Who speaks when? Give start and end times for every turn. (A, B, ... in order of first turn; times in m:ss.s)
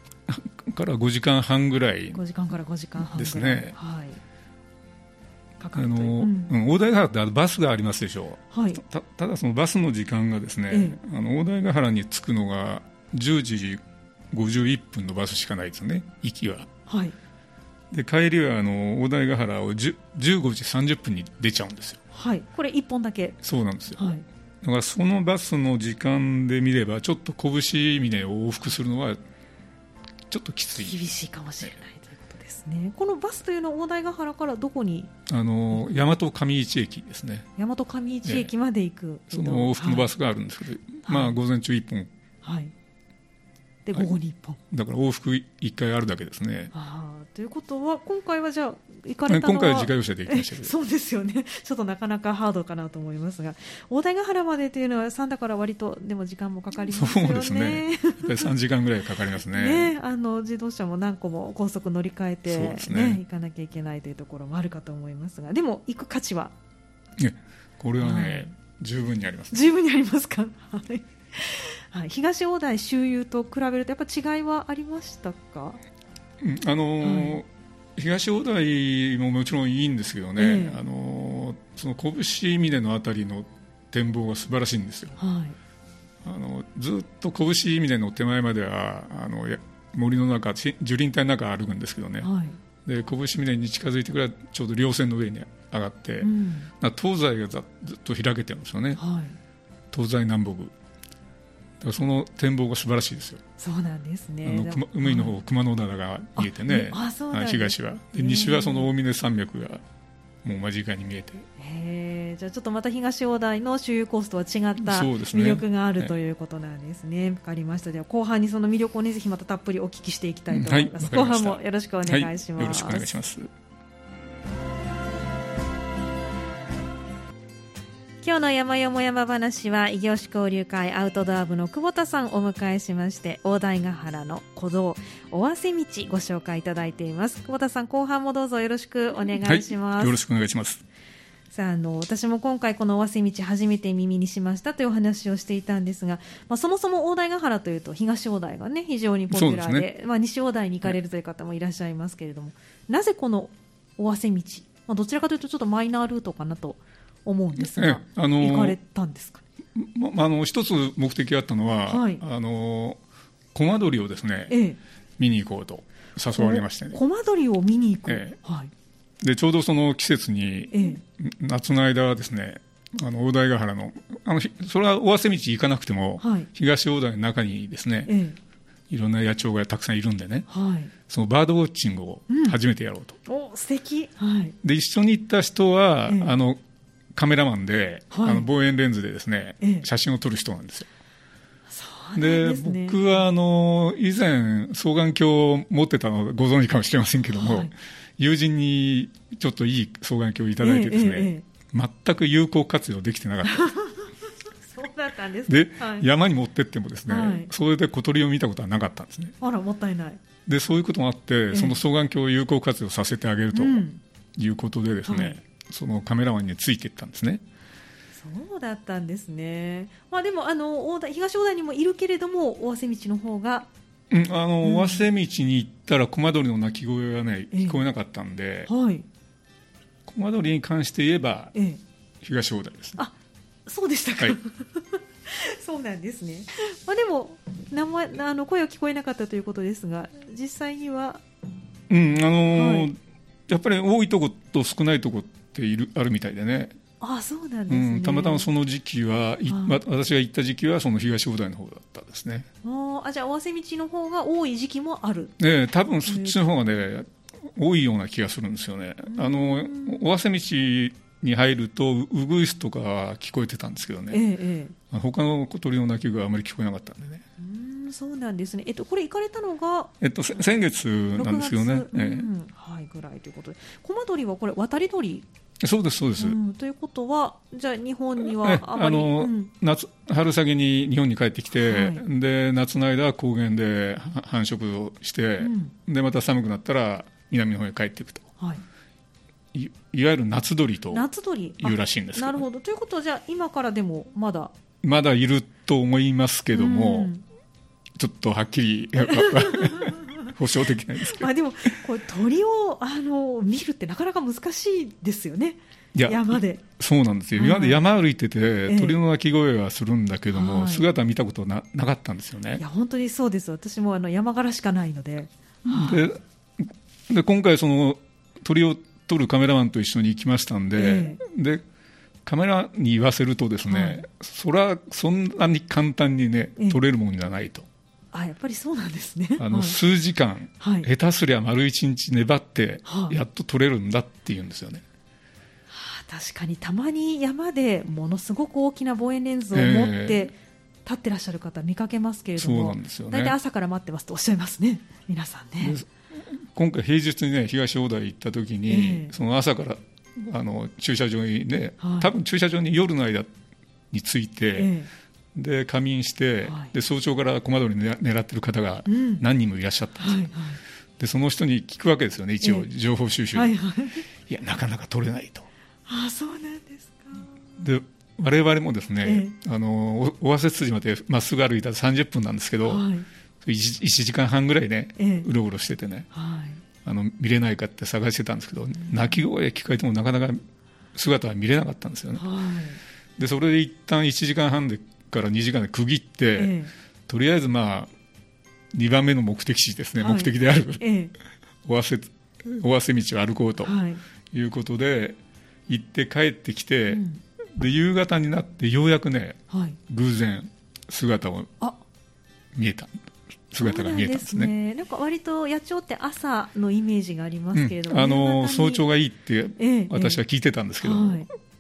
0:00.3-0:02.2 A
0:02.1-0:04.2 B
0:03.0-0:03.8 A
0:05.6-0:06.5 B
0:05.7-0:13.8 A
0:08.5-0:08.8 B
0:10.7-0:11.0 B
0:14.3-0:16.7 A
0:16.9-0:17.1 B
0:17.9-0:22.0 A
0:22.1-0:23.4 B
0:23.4-0:29.2 A
0:24.0-0:24.2 B
0:30.3-0:31.0 A
0:30.8-0:35.1 B
0:35.3-0:37.5 A
0:37.6-0:40.1 B
0:38.2-0:38.5 A
0:39.3-0:42.1 A
0:41.0-0:41.4 B
0:42.4-0:42.7 B
0:43.8-0:44.6 B
0:44.7-0:46.7 A
0:46.7-0:58.5 B
0:49.3-0:50.7 A
0:56.9-0:59.9 A
0:59.5-1:06.5 B
1:02.5-1:03.2 A
1:07.2-1:09.7 A
1:08.0-1:08.5 B
1:09.5-1:15.8 B
1:16.4-1:25.2 A
1:17.0-1:17.4 B
1:20.4-1:20.8 B
1:25.2-1:25.6 B
1:26.2-1:32.3 A
1:32.2-1:32.6 B
1:32.8-1:39.0 A
1:36.2-1:36.7 B
1:39.0-1:39.4 B
1:39.9-1:40.7 A
1:41.8-1:43.4 A
1:43.6-1:45.4 B
1:44.4-1:49.8 A
1:46.4-1:48.9 B
1:50.4-1:51.5 A
1:51.6-2:03.1 B
1:54.8-1:56.1 A
2:00.5-2:03.5 A
2:08.2-2:20.2 B
2:19.4-2:20.8 A
2:21.5-2:39.4 B
2:29.3-2:29.9 A
2:37.6-2:38.8 A
2:39.8-2:43.0 A
2:41.9-2:42.2 B
2:43.5-2:44.6 A
2:44.5-2:44.8 B
2:45.2-2:47.0 A
2:46.4-2:48.7 B
2:48.1-2:48.4 A
2:49.2-2:58.1 A
2:50.7-2:51.0 B
2:56.2-2:56.5 B
2:58.0-2:58.4 B
2:58.9-3:00.5 A
3:00.5-3:00.9 B
3:01.1-3:03.2 A
3:02.3-3:02.6 B
3:03.2-3:04.5 B
3:04.6-3:06.6 A
3:06.1-3:06.4 B
3:07.1-3:10.9 A
3:08.1-3:08.5 B
3:09.6-3:09.9 B
3:11.7-3:13.2 B
3:12.2-3:23.7 A
3:17.4-3:17.7 B
3:20.6-3:21.4 B
3:23.4-3:26.1 B
3:25.5-3:29.4 A
3:27.1-3:27.5 B
3:29.4-3:30.2 B
3:30.5-3:33.8 A
3:31.5-3:31.8 B
3:33.5-3:34.0 B
3:34.4-3:37.4 A
3:35.0-3:35.4 B
3:38.1-3:43.7 B
3:44.1-3:48.7 A
3:44.6-3:45.1 B
3:47.5-3:47.8 B
3:48.7-3:49.0 B
3:50.0-3:51.5 A
3:51.5-3:51.8 B
3:52.2-3:53.0 A
3:53.6-4:01.2 B
4:01.9-4:03.0 A
4:02.5-4:02.9 B
4:03.5-4:06.8 A
4:07.0-4:08.5 B
4:07.7-4:12.5 A
4:09.5-4:09.8 B
4:12.6-4:15.4 B
4:15.4-4:24.2 A
4:16.0-4:16.4 B
4:19.1-4:20.0 B
4:24.1-4:24.8 B
4:24.9-4:27.2 A
4:27.4-4:29.9 B
4:30.0-4:32.3 A
4:31.1-4:35.2 B
4:35.6-4:36.4 A
4:36.2-4:39.5 B
4:38.2-4:48.3 A
4:41.5-4:42.0 B
4:45.4-4:45.7 B
4:49.5-4:51.0 A
4:50.9-4:54.5 B
4:51.6-4:52.4 A
4:54.8-4:57.1 A
4:56.5-4:57.2 B
4:58.0-5:01.3 A
4:59.0-5:00.3 B
5:01.0-5:06.6 B
5:06.0-5:12.6 A
5:07.4-5:07.8 B
5:08.7-5:09.0 B
5:10.3-5:10.9 B
5:12.6-5:16.1 B
5:15.6-5:21.6 A
5:20.8-5:21.2 B
5:22.2-5:27.6 A
5:23.7-5:24.0 B
5:28.1-5:29.8 B
5:29.4-5:34.8 A
5:30.6-5:30.9 B
5:32.9-5:33.2 B
5:35.7-5:45.8 B
5:39.5-5:40.2 A
5:42.4-5:43.4 A
5:45.6-5:53.3 A
5:48.7-5:49.1 B
5:51.8-5:52.1 B
5:53.9-5:54.7 A
5:54.5-5:54.9 B
5:55.4-6:00.3 A
5:56.4-5:56.7 B
5:58.9-5:59.2 B
6:00.0-6:00.6 B
6:01.0-6:03.6 A
6:02.4-6:02.7 B
6:03.3-6:04.0 B
6:04.3-6:05.5 A
6:05.9-6:07.4 B
6:07.6-6:12.9 A
6:09.0-6:09.4 B
6:12.6-6:13.0 B
6:13.4-6:16.1 A
6:15.0-6:15.3 B
6:16.1-6:16.6 B
6:16.8-6:20.4 A
6:21.0-6:22.2 A
6:22.2-6:22.8 B
6:23.2-6:26.6 A
6:26.4-6:26.7 B
6:27.1-6:27.9 A
6:28.7-6:30.8 A
6:30.0-6:31.1 B
6:31.6-6:33.8 A
6:33.6-6:34.0 B
6:34.3-6:37.0 A
6:36.9-6:37.2 B
6:37.6-6:41.5 A
6:39.5-6:39.8 B
6:42.5-6:42.9 A
6:43.5-6:44.5 A
6:43.6-6:48.8 B
6:47.5-6:51.3 A
6:49.6-6:50.2 B
6:50.8-6:51.3 B